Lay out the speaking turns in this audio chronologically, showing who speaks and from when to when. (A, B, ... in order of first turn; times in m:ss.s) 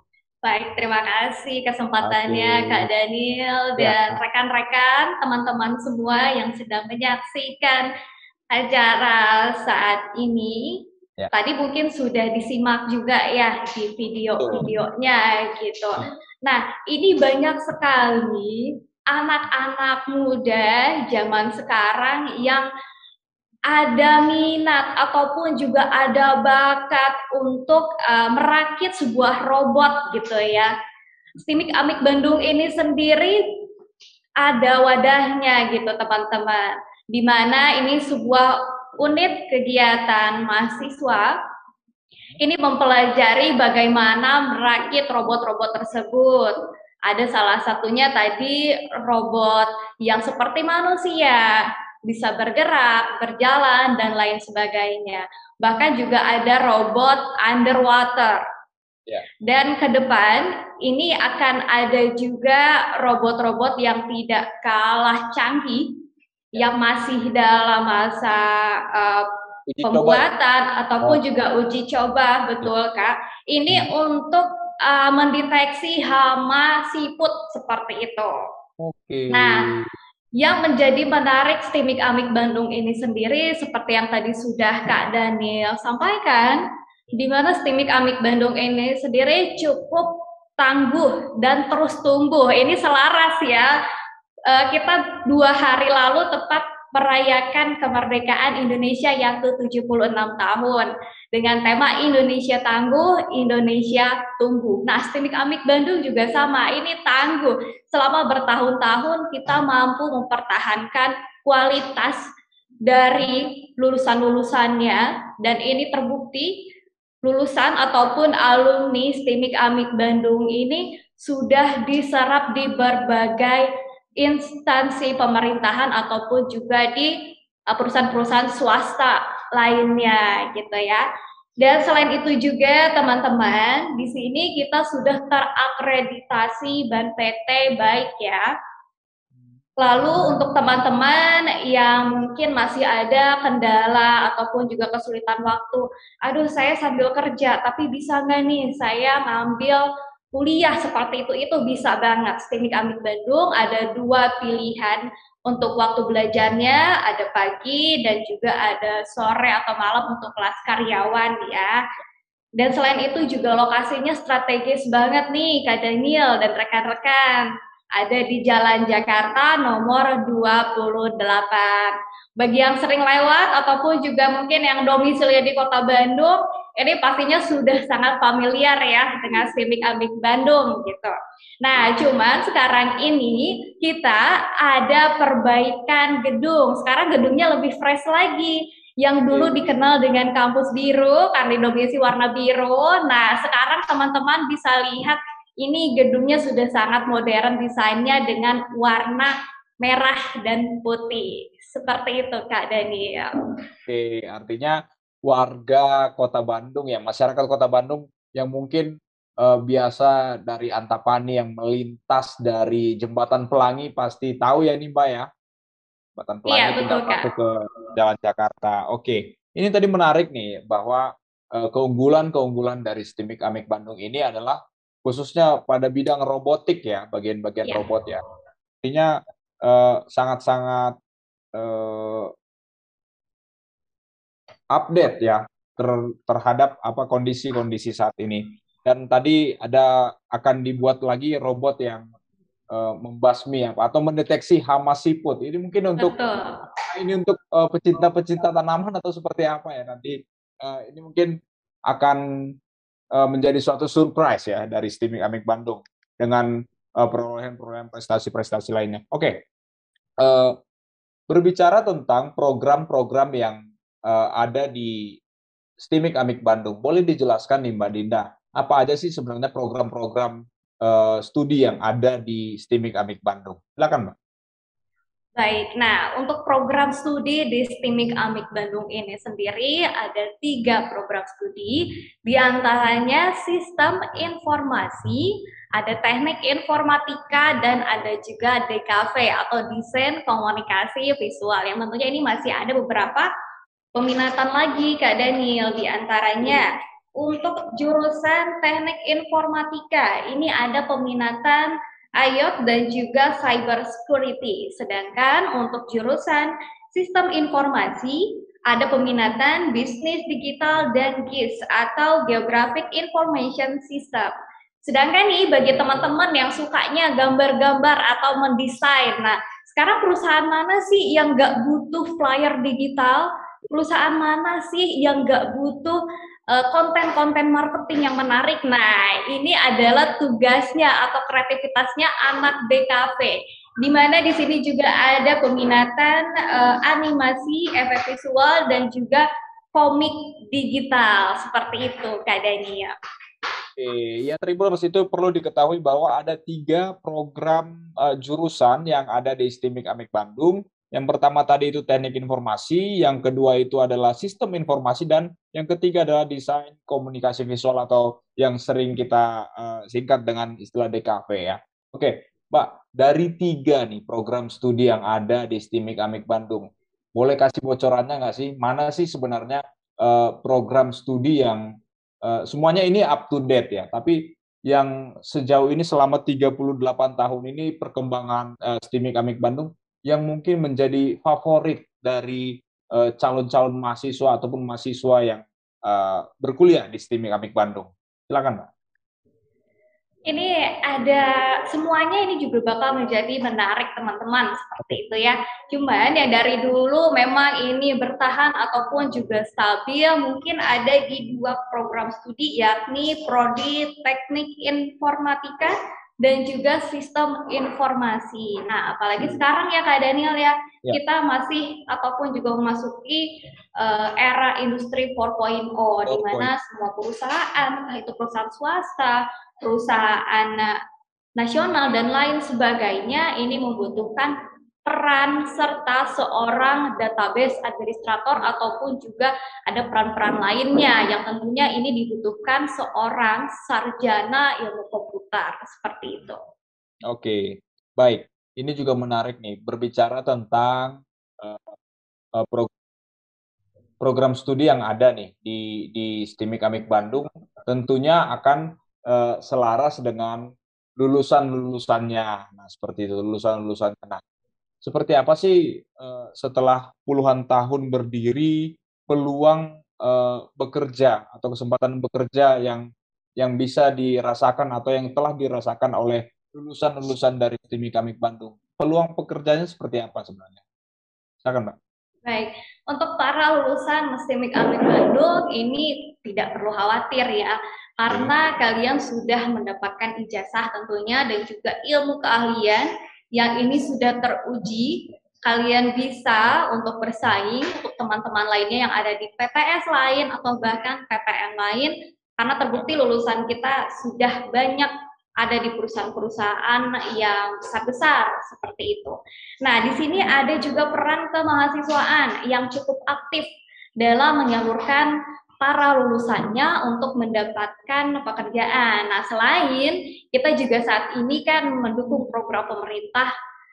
0:00.4-0:07.9 A
0:02.0-0:02.9 B
0:03.8-0:04.2 B
0:08.5-0:10.7 A
0:11.3-0:22.7 A
0:14.4-0:14.7 B
0:23.7-0:30.7 A
0:31.4-0:33.4 A
0:34.4-0:41.3 A
0:42.4-0:58.4 A
0:59.5-1:05.9 A
1:06.5-1:09.3 A
1:09.7-1:10.3 B
1:09.8-1:18.4 A
1:18.8-1:19.9 B
1:19.3-1:19.7 A
1:20.4-1:26.6 A
1:27.2-1:33.7 A
1:34.5-1:52.3 A
1:52.9-1:56.5 A
1:57.2-2:03.7 A
2:04.2-2:07.1 A
2:07.7-2:11.0 A
2:11.6-2:18.5 A
2:19.8-2:41.8 A
2:42.6-3:23.3 A
3:09.3-3:09.7 B
3:23.9-3:35.3 B
3:36.2-3:48.2 B
3:36.5-3:37.3 A
3:48.8-3:51.0 B
3:51.6-3:52.3 B
3:54.7-4:02.1 B
4:02.7-4:06.2 B
4:06.0-4:06.6 A
4:06.8-4:11.3 B
4:11.9-4:12.2 B
4:13.2-4:16.5 B
4:17.0-4:19.4 B
4:20.2-4:20.6 B
4:21.3-4:25.2 B
4:25.8-4:34.1 B
4:35.4-4:53.3 A
4:54.0-5:14.3 A
5:14.9-5:26.0 A
5:26.5-5:42.9 A
5:43.8-6:11.6 B
6:12.2-6:28.7 B
6:30.3-6:53.3 A
6:53.8-7:00.8 A
6:56.1-6:56.5 B
7:01.4-7:04.3 A
7:04.9-7:16.4 A
7:17.1-7:21.8 B
7:22.4-7:22.7 B
7:24.0-7:34.2 B
7:34.8-7:42.9 B
7:43.4-7:50.6 B
7:51.4-7:51.8 B
7:52.3-8:14.9 A
7:58.1-7:58.3 B
8:15.4-8:23.5 A
8:24.0-8:33.3 A